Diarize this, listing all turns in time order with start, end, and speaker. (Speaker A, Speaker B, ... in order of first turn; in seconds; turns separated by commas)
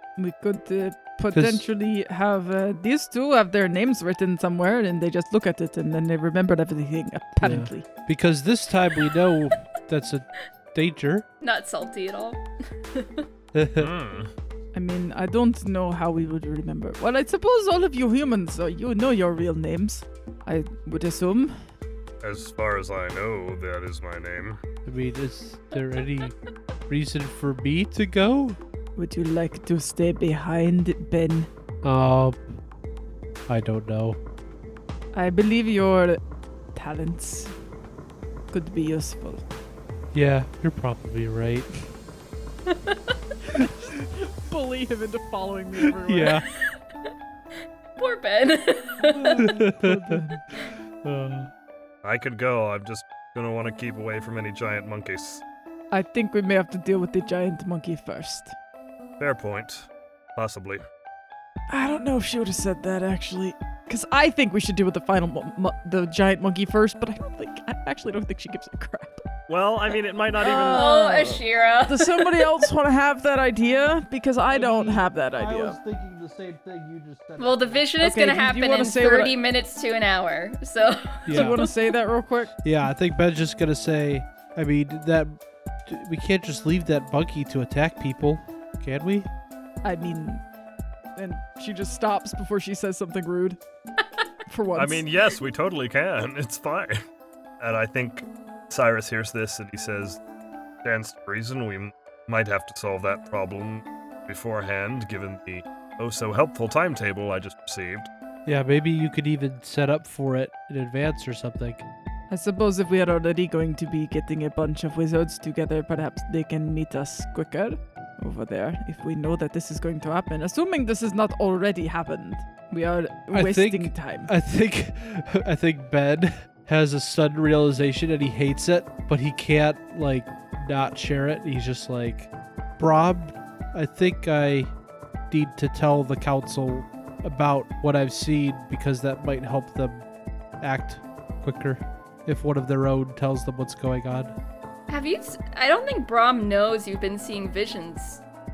Speaker A: 0.2-7.9, Speaker B: 1.3-1.6, Speaker B: 7.4-11.3, Speaker C: 11.4-12.4, Speaker C: 12.9-13.3, Speaker B: 13.5-13.9, Speaker D: 13.8-14.3, Speaker A: 14.7-21.6, Speaker D: 22.2-24.6, Speaker B: 24.9-26.4, Speaker B: 26.9-28.6, Speaker A: 28.9-31.5, Speaker B: 31.8-32.5, Speaker B: 33.5-34.2, Speaker A: 35.1-36.2, Speaker A: 36.8-37.5, Speaker A: 38.5-39.4, Speaker B: 40.1-41.7, Speaker C: 42.7-43.1, Speaker A: 43.5-46.4, Speaker B: 46.0-46.4, Speaker C: 48.0-49.5, Speaker A: 49.1-50.4, Speaker B: 49.4-51.5, Speaker D: 52.0-55.4, Speaker A: 55.9-58.5, Speaker D: 59.2-60.8, Speaker A: 61.7-69.3, Speaker D: 69.5-70.9, Speaker A: 70.4-75.8, Speaker C: 70.7-72.5, Speaker B: 74.5-77.8, Speaker C: 77.4-81.7, Speaker A: 78.0-79.4, Speaker B: 81.3-81.6, Speaker A: 81.3-82.5, Speaker B: 82.6-89.3, Speaker A: 89.8-90.4, Speaker A: 91.2-93.6, Speaker A: 94.5-95.1, Speaker D: 94.8-97.0, Speaker D: 97.6-100.2, Speaker D: 100.8-108.1, Speaker B: 108.5-111.8, Speaker A: 112.3-124.3, Speaker B: 123.3-134.7, Speaker B: 135.3-140.1, Speaker B: 140.6-144.3, Speaker C: 144.9-148.2